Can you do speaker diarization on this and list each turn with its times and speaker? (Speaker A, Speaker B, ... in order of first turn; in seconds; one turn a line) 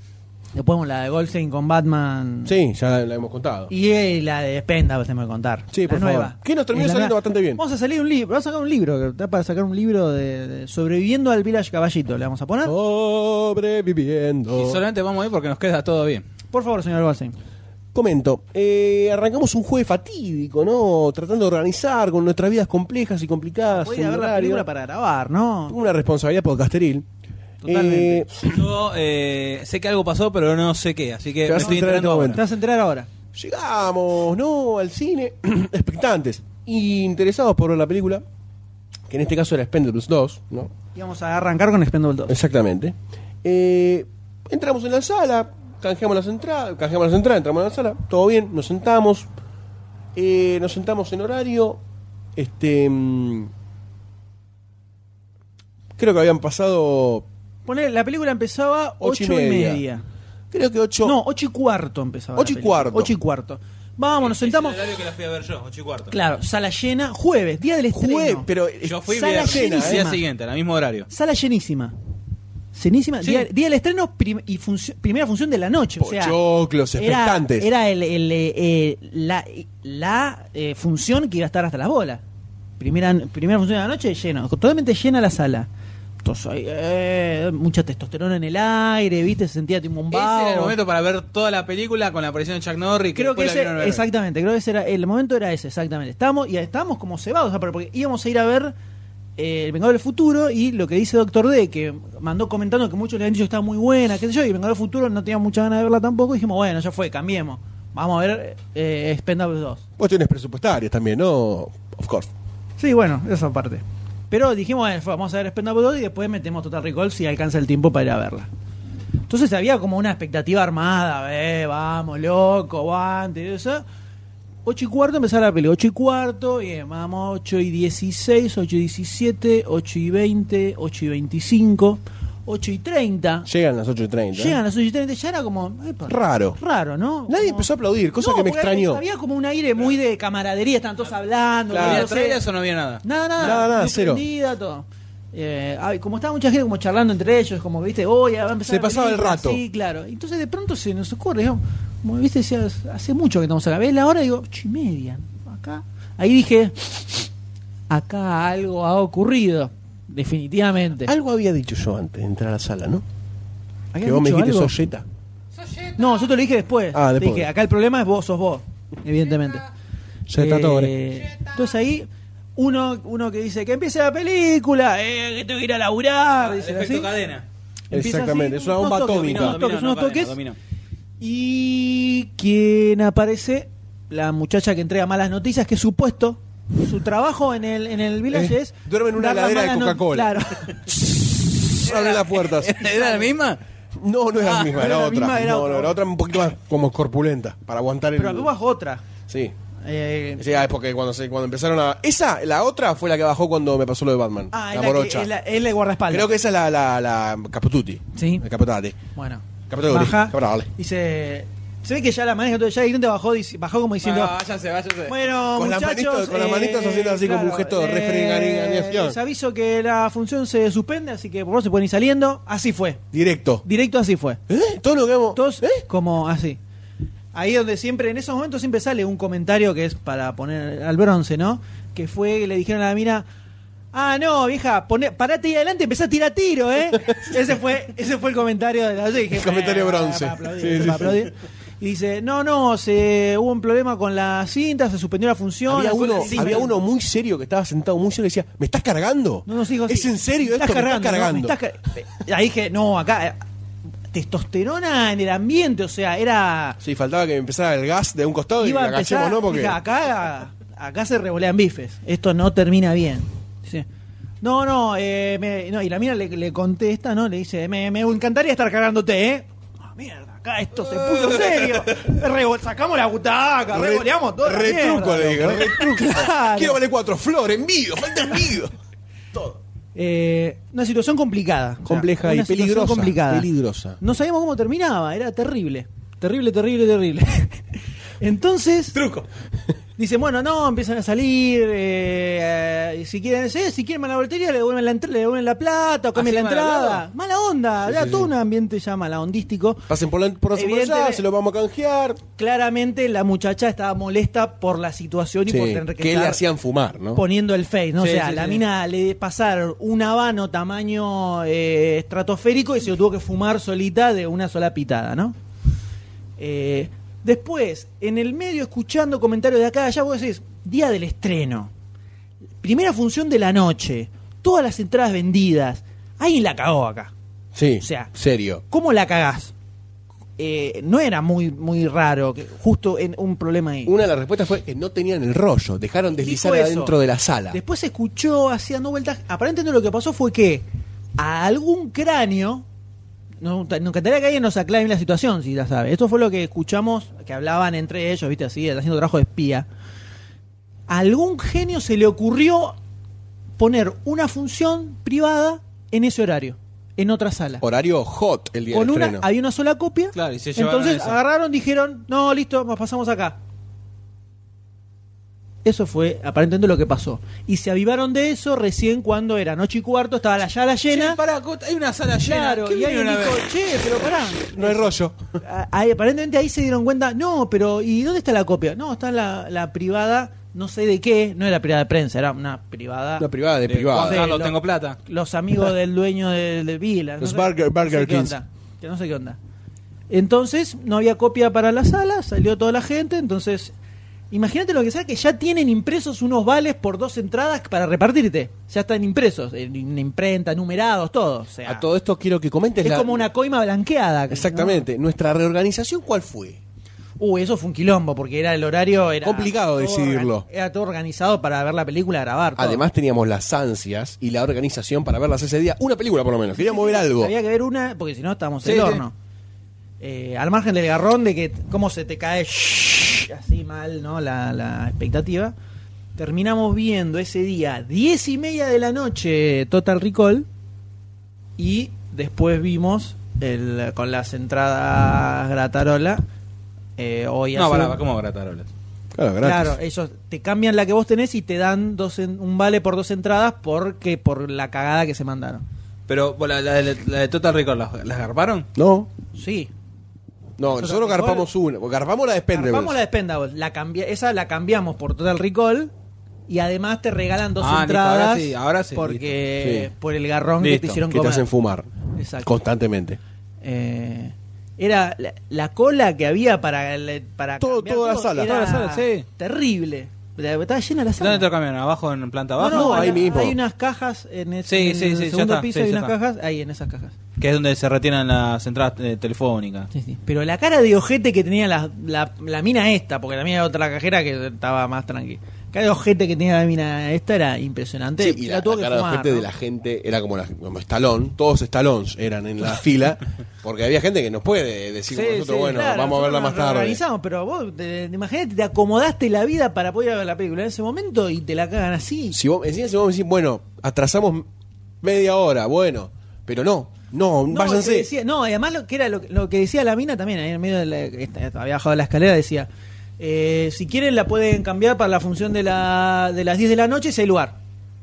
Speaker A: 0.5-2.5
Speaker B: 2.4-3.7
Speaker A: 3.7-12.7
Speaker B: 5.7-7.6
Speaker B: 12.6-14.8
Speaker C: 14.5-16.2
Speaker A: 16.5-17.4
Speaker B: 17.9-24.6
Speaker A: 23.7-25.8
Speaker B: 25.7-27.1
Speaker A: 27.6-28.2
Speaker B: 27.6-28.4
Speaker C: 28.4-32.4
Speaker B: 31.4-32.4
Speaker A: 31.5-33.1
Speaker B: 33.3-38.2
Speaker B: 39.1-40.7
Speaker A: 40.9-42.4
Speaker B: 42.3-49.3
Speaker B: 50.1-51.8
Speaker B: 52.4-53.5
Speaker B: 56.0-57.3
Speaker A: 57.6-60.0
Speaker B: 59.0-59.8
Speaker B: 60.5-61.2
Speaker A: 61.0-64.8
Speaker B: 62.4-63.1
Speaker C: 64.2-66.2
Speaker A: 66.1-68.5
Speaker B: 67.9-70.1
Speaker C: 68.8-71.1
Speaker A: 69.1-70.2
Speaker A: 71.1-71.9
Speaker A: 72.7-76.4
Speaker C: 73.2-73.5
Speaker B: 76.0-77.7
Speaker A: 76.9-82.2
Speaker A: 82.8-85.7
Speaker A: 86.2-90.8
Speaker C: 90.1-94.0
Speaker A: 93.2-98.7
Speaker A: 99.4-109.8
Speaker B: 110.0-112.3
Speaker A: 112.8-118.5
Speaker A: 119.3-123.8
Speaker A: 124.6-133.5
Speaker B: 133.4-134.6
Speaker A: 134.3-142.4
Speaker B: 136.1-136.6
Speaker B: 137.3-139.0
Speaker B: 141.7-142.1
Speaker C: 141.8-143.0
Speaker A: 143.0-157.0
Speaker B: 143.4-144.2
Speaker B: 148.6-149.6
Speaker A: 157.9-161.1
Speaker B: 161.0-163.0
Speaker A: 163.9-164.7
Speaker B: 164.0-165.0
Speaker C: 165.6-166.3
Speaker A: 166.0-169.6
Speaker B: 166.9-167.5
Speaker B: 170.3-170.9
Speaker A: 170.3-177.1
Speaker C: 176.4-177.4
Speaker B: 177.9-179.6
Speaker A: 177.9-180.4
Speaker C: 179.1-180.6
Speaker A: 181.2-190.9
Speaker B: 188.3-190.3
Speaker B: 191.7-192.8
Speaker C: 191.8-193.6
Speaker A: 192.8-193.3
Speaker B: 194.0-198.5
Speaker A: 194.4-196.0
Speaker A: 198.1-199.0
Speaker B: 199.3-199.5
Speaker A: 199.8-200.5
Speaker B: 200.4-205.3
Speaker A: 204.5-206.3
Speaker B: 206.1-209.0
Speaker A: 208.1-208.4
Speaker A: 209.1-214.3
Speaker B: 209.7-210.7
Speaker C: 214.0-215.2
Speaker A: 215.1-223.0
Speaker B: 215.5-219.2
Speaker B: 223.1-223.6
Speaker A: 223.6-224.4
Speaker B: 224.5-225.8
Speaker A: 225.3-226.6
Speaker A: 227.3-233.2
Speaker A: 233.9-246.8
Speaker B: 239.3-241.3
Speaker B: 245.7-251.6
Speaker C: 246.1-246.6
Speaker A: 249.4-253.4
Speaker A: 254.1-256.8
Speaker B: 256.8-259.8
Speaker A: 258.6-263.8
Speaker A: 264.4-276.8
Speaker C: 271.1-271.6
Speaker B: 273.7-278.7
Speaker B: 279.3-279.6
Speaker A: 279.9-283.5
Speaker B: 281.8-284.0
Speaker A: 284.0-287.6
Speaker A: 288.2-289.0
Speaker C: 288.9-289.3
Speaker A: 290.0-299.9
Speaker C: 296.1-297.0
Speaker B: 297.9-298.3
Speaker B: 299.9-302.2
Speaker A: 300.5-301.2
Speaker A: 302.4-306.4
Speaker B: 305.5-307.2
Speaker A: 307.1-315.4
Speaker C: 308.0-308.6
Speaker A: 316.4-321.7
Speaker A: 322.6-327.1
Speaker B: 327.5-328.6
Speaker A: 327.8-328.1
Speaker A: 328.7-329.5
Speaker A: 330.4-333.9
Speaker B: 333.8-337.6
Speaker A: 336.2-336.9
Speaker A: 337.5-340.6
Speaker A: 341.2-342.6
Speaker A: 343.4-349.7
Speaker A: 350.9-352.8
Speaker A: 353.6-357.6
Speaker B: 357.6-359.3
Speaker A: 358.7-363.4
Speaker C: 360.1-361.2
Speaker A: 365.6-371.2
Speaker C: 370.9-373.5
Speaker A: 372.2-383.3
Speaker B: 374.5-375.2
Speaker B: 383.2-384.3
Speaker C: 383.7-385.0
Speaker A: 383.9-389.4
Speaker B: 387.2-388.4
Speaker A: 390.1-393.7
Speaker A: 394.3-401.9
Speaker B: 401.6-403.2
Speaker A: 402.8-404.9
Speaker B: 404.3-406.6
Speaker A: 407.2-412.8
Speaker B: 409.2-410.4
Speaker B: 412.6-417.3
Speaker A: 416.6-419.1
Speaker C: 418.6-419.0
Speaker A: 420.0-425.5
Speaker A: 426.1-430.5
Speaker A: 431.6-436.2
Speaker A: 437.0-438.0
Speaker C: 437.5-438.7
Speaker B: 439.1-439.8
Speaker A: 439.4-445.6
Speaker C: 446.1-448.7
Speaker B: 448.8-449.1
Speaker A: 449.3-449.7
Speaker B: 450.6-453.0
Speaker A: 450.7-451.5
Speaker A: 452.5-455.9
Speaker A: 456.5-461.5
Speaker C: 457.6-459.4
Speaker B: 459.6-459.9
Speaker C: 460.6-461.0
Speaker B: 461.1-461.9
Speaker A: 462.1-462.6
Speaker B: 462.4-463.2
Speaker A: 463.6-471.5
Speaker B: 467.6-468.5
Speaker C: 468.4-469.2
Speaker C: 471.2-473.2
Speaker A: 472.6-477.1
Speaker B: 472.7-473.6
Speaker C: 474.7-476.1
Speaker C: 477.4-479.9
Speaker A: 479.9-489.5
Speaker B: 488.2-497.0
Speaker A: 495.1-502.4
Speaker B: 502.3-504.5
Speaker B: 505.0-508.1
Speaker A: 507.5-512.7
Speaker A: 513.2-517.5